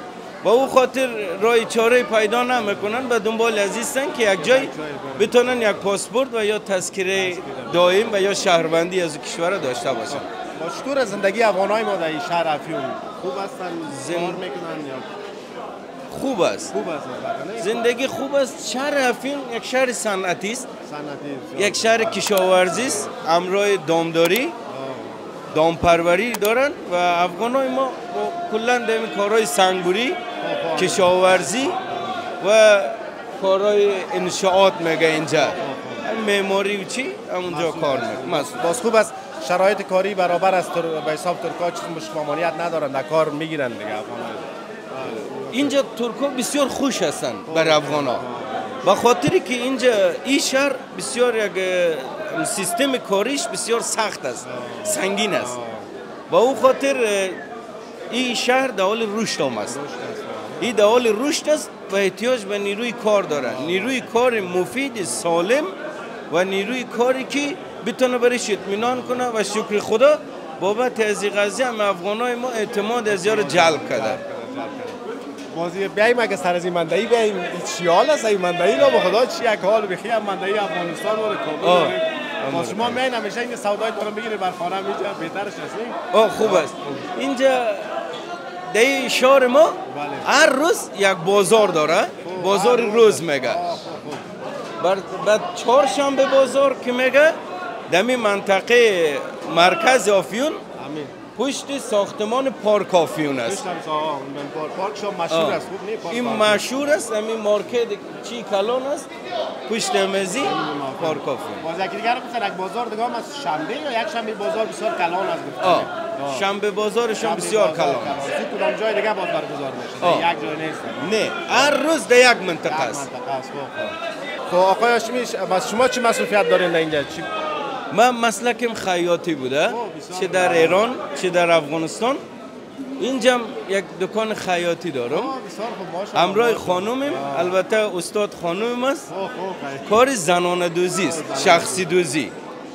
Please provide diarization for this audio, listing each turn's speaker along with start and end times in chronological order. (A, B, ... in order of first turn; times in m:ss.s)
0:00.4-0:10.3 A
0:04.4-0:05.4 B
0:07.1-0:08.3 B
0:09.8-0:15.1 B
0:13.9-0:14.4 A
0:16.1-0:16.8 A
0:16.7-0:18.0 B
0:17.6-0:20.7 A
0:20.8-0:23.1 B
0:21.6-0:24.6 A
0:24.7-0:25.3 B
0:25.5-0:30.2 A
0:30.4-0:32.2 B
0:30.8-0:31.8 A
0:32.4-0:38.8 A
0:35.4-0:36.0 B
0:37.5-0:45.8 B
0:45.3-0:48.2 A
0:47.5-0:48.8 B
0:48.8-0:55.6 A
0:54.4-0:55.9 B
0:56.3-0:57.4 A
0:58.1-0:59.8 A
0:59.6-1:00.8 B
1:00.6-1:05.7 A
1:03.3-1:04.4 B
1:06.3-1:14.2 A
1:09.0-1:09.2 B
1:13.0-1:15.0 B
1:15.5-1:27.0 B
1:21.6-1:23.0 A
1:26.1-1:27.9 A
1:28.7-1:33.6 A
1:29.9-1:30.3 B
1:32.2-1:34.3 B
1:34.8-1:40.6 A
1:40.8-1:41.1 B
1:41.3-1:43.6 A
1:43.4-1:46.7 B
1:45.3-1:49.1 A
1:49.6-1:51.7 A
1:50.4-1:56.5 B
1:55.6-1:58.2 A
1:57.2-2:01.8 B
2:00.0-2:00.3 A
2:01.0-2:03.0 A
2:02.6-2:04.0 B
2:04.5-2:07.3 B
2:07.9-2:12.2 A
2:09.6-2:10.9 B
2:13.0-2:15.3 A
2:15.1-2:17.6 B
2:16.1-2:19.1 A
2:19.1-2:20.0 B
2:19.8-2:22.3 A
2:21.0-2:21.9 B